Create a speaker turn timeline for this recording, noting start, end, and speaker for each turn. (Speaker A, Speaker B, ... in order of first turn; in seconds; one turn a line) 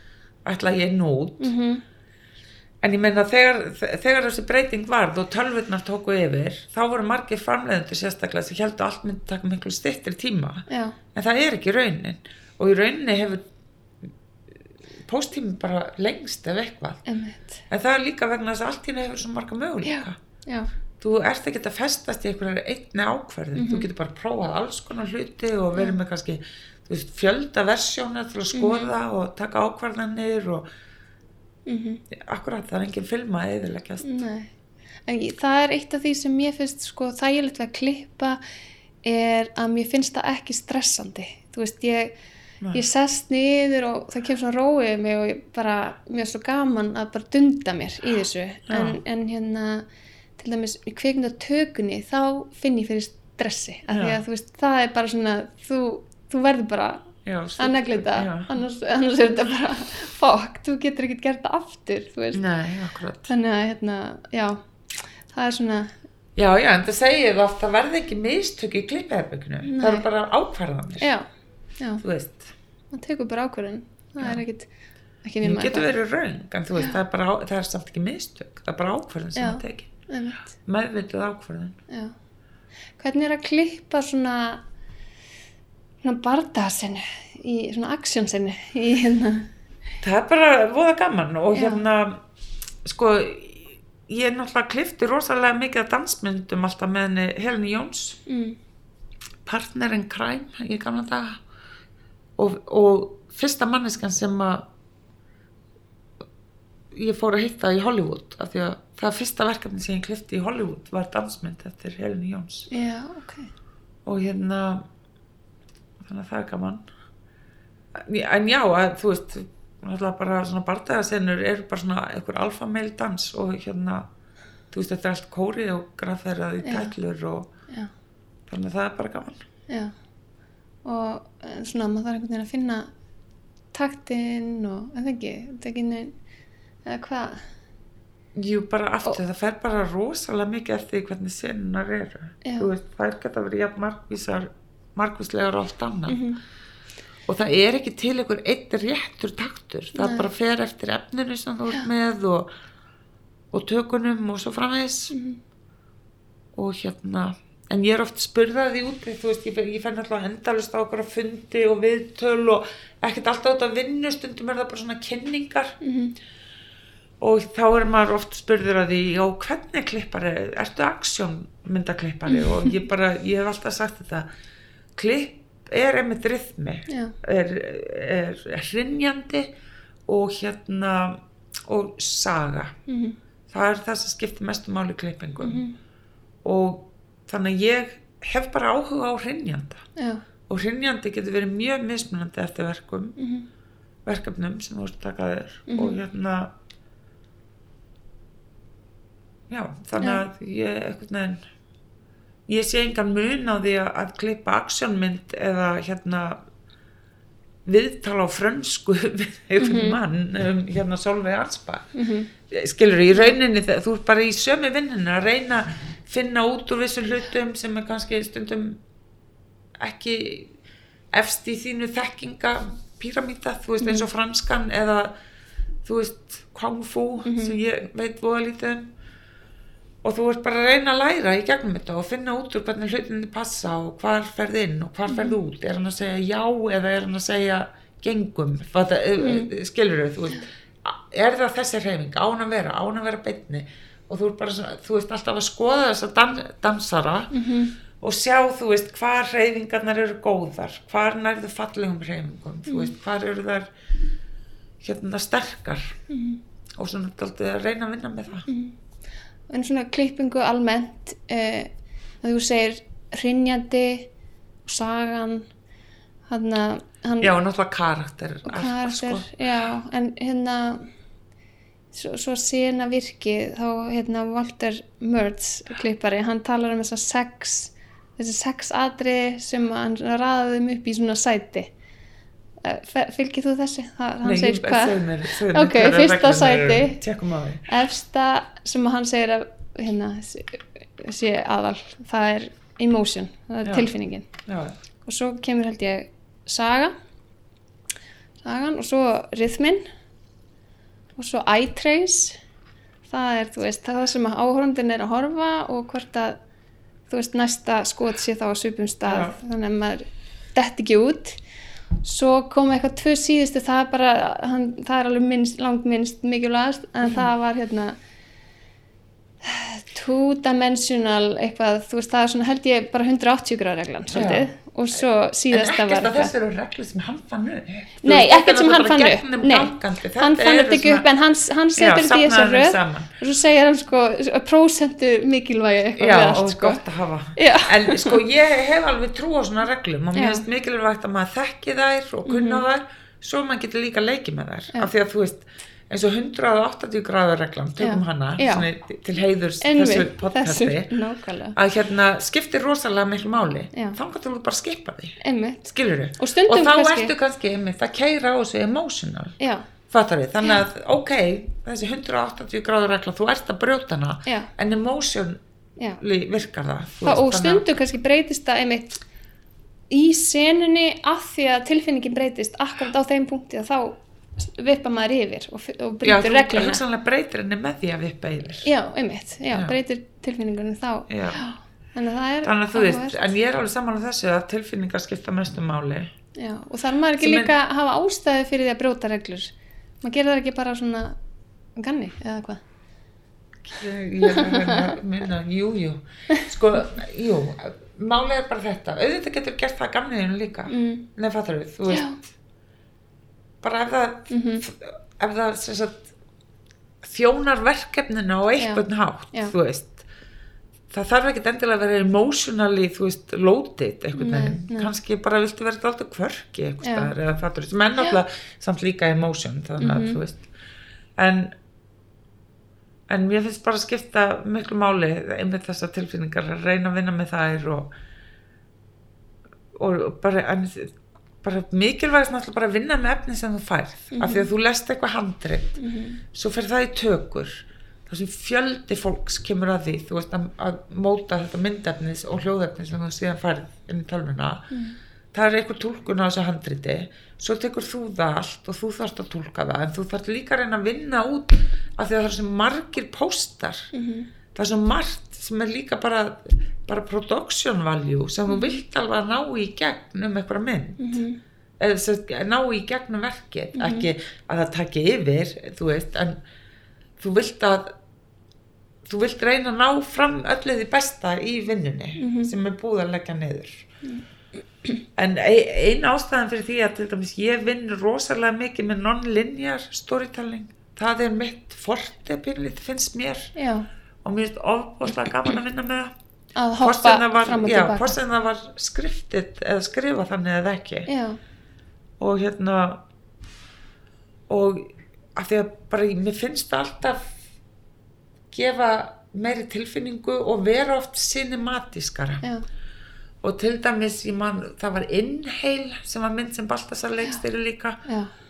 Speaker A: 0.4-1.5
Speaker B: 1.4-1.8
Speaker A: 2.8-13.4
Speaker B: 10.7-11.0
Speaker A: 15.0-17.0
Speaker B: 17.1-17.6
Speaker A: 17.7-20.2
Speaker B: 19.8-20.7
Speaker A: 21.0-30.6
Speaker B: 23.5-23.9
Speaker B: 28.5-28.9
Speaker B: 31.7-32.0
Speaker A: 32.1-34.2
Speaker B: 34.0-34.5
Speaker B: 35.0-38.4
Speaker B: 39.0-42.1
Speaker B: 42.7-49.9
Speaker A: 48.7-49.0
Speaker B: 50.4-57.0
Speaker A: 53.9-54.2
Speaker A: 57.2-58.5
Speaker B: 57.6-62.4
Speaker A: 62.3-63.3
Speaker B: 63.3-64.6
Speaker B: 65.3-65.9
Speaker A: 66.3-71.1
Speaker B: 69.6-70.0
Speaker B: 71.0-71.2
Speaker A: 72.0-72.5
Speaker B: 72.9-74.7
Speaker B: 75.2-75.9
Speaker A: 75.4-79.9
Speaker B: 79.3-80.4
Speaker A: 80.6-81.8
Speaker B: 81.9-82.1
Speaker B: 83.0-84.6
Speaker B: 86.0-89.5
Speaker A: 90.0-92.2
Speaker B: 91.5-91.8
Speaker A: 92.8-98.2
Speaker B: 98.3-98.6
Speaker A: 99.4-101.4
Speaker A: 102.4-104.7
Speaker A: 106.9-112.7
Speaker B: 112.7-113.5
Speaker A: 114.0-114.9
Speaker A: 116.0-116.8
Speaker A: 117.9-124.1
Speaker A: 124.7-127.5
Speaker B: 126.6-126.9
Speaker A: 128.5-129.4
Speaker B: 129.7-129.9
Speaker B: 130.8-132.9
Speaker B: 133.7-136.1
Speaker B: 136.8-137.4
Speaker A: 138.3-146.2
Speaker B: 142.4-142.7
Speaker B: 146.1-146.4
Speaker A: 147.3-152.5
Speaker B: 149.9-150.3
Speaker A: 153.5-155.1
Speaker B: 155.1-155.4
Speaker A: 156.5-165.8
Speaker B: 165.8-166.1
Speaker A: 167.2-174.3
Speaker B: 172.3-172.8
Speaker A: 174.9-179.5
Speaker B: 176.9-177.1
Speaker A: 180.1-182.7
Speaker B: 182.9-183.2
Speaker A: 183.5-185.6
Speaker B: 185.4-185.7
Speaker A: 186.4-189.8
Speaker B: 190.0-190.2
Speaker A: 190.5-193.2
Speaker B: 193.2-193.5
Speaker A: 194.1-196.5
Speaker B: 195.7-196.0
Speaker A: 199.5-201.4
Speaker A: 202.5-206.4
Speaker A: 207.7-211.9
Speaker B: 209.6-210.0
Speaker B: 211.9-212.3
Speaker A: 212.5-218.8
Speaker A: 219.8-220.5
Speaker A: 221.1-225.1
Speaker A: 225.8-228.9
Speaker B: 227.2-227.6
Speaker A: 230.0-247.3
Speaker B: 235.1-235.4
Speaker B: 239.2-239.5
Speaker B: 247.3-247.7
Speaker A: 248.0-253.7
Speaker A: 254.8-256.0
Speaker B: 256.1-256.4
Speaker A: 256.8-258.5
Speaker B: 258.5-258.8
Speaker B: 259.5-264.1
Speaker B: 264.6-265.5
Speaker B: 266.3-267.3
Speaker A: 267.2-269.4
Speaker B: 268.4-270.9
Speaker B: 271.9-281.7
Speaker B: 282.6-287.0
Speaker A: 284.2-287.7
Speaker B: 287.7-294.3
Speaker A: 293.6-293.9
Speaker A: 294.4-294.7
Speaker B: 295.0-296.9
Speaker B: 298.4-299.9
Speaker B: 301.2-302.4
Speaker B: 303.1-306.4
Speaker B: 307.1-311.4
Speaker A: 309.0-309.4
Speaker B: 312.0-318.0
Speaker A: 317.0-317.3
Speaker B: 319.4-326.3
Speaker A: 324.1-324.5
Speaker A: 325.5-331.1
Speaker B: 328.0-336.8
Speaker A: 331.7-333.1
Speaker A: 336.0-350.9
Speaker B: 337.4-338.2
Speaker B: 340.1-340.4
Speaker B: 342.2-342.6
Speaker B: 347.8-348.7
Speaker B: 349.6-351.6
Speaker A: 351.5-359.4
Speaker B: 353.7-354.0
Speaker B: 355.2-357.1
Speaker B: 359.4-359.7
Speaker A: 359.9-365.4
Speaker A: 366.0-367.7
Speaker B: 367.0-369.0
Speaker B: 369.9-376.8
Speaker A: 376.0-378.7
Speaker B: 378.6-383.3
Speaker A: 381.1-381.4
Speaker A: 382.4-386.1
Speaker B: 386.4-391.2
Speaker A: 387.2-387.5
Speaker B: 391.8-392.6
Speaker A: 393.6-402.2
Speaker B: 394.2-394.9
Speaker B: 400.7-401.1
Speaker B: 401.9-402.2
Speaker A: 403.6-406.1
Speaker B: 404.3-404.6
Speaker A: 407.0-410.1
Speaker B: 408.6-409.5
Speaker A: 410.9-420.5
Speaker B: 414.1-414.9
Speaker B: 416.8-417.1
Speaker B: 419.8-420.2
Speaker A: 421.2-421.6
Speaker A: 423.1-427.9
Speaker A: 429.7-435.8
Speaker B: 434.1-434.5
Speaker B: 435.8-436.2
Speaker A: 436.3-444.7
Speaker A: 445.3-453.9
Speaker B: 453.9-454.3
Speaker A: 454.5-461.2
Speaker B: 458.5-458.8
Speaker B: 461.0-461.4
Speaker A: 461.8-466.4
Speaker B: 463.7-464.1
Speaker A: 467.2-467.9
Speaker A: 469.1-473.9
Speaker B: 472.2-472.5
Speaker A: 475.1-483.5
Speaker B: 483.6-483.9
Speaker A: 484.2-486.1
Speaker B: 486.6-488.1
Speaker A: 486.8-491.1
Speaker B: 491.1-491.4
Speaker A: 492.2-493.0
Speaker A: 494.5-497.3
Speaker A: 498.5-502.4
Speaker A: 503.4-508.0
Speaker B: 508.1-508.3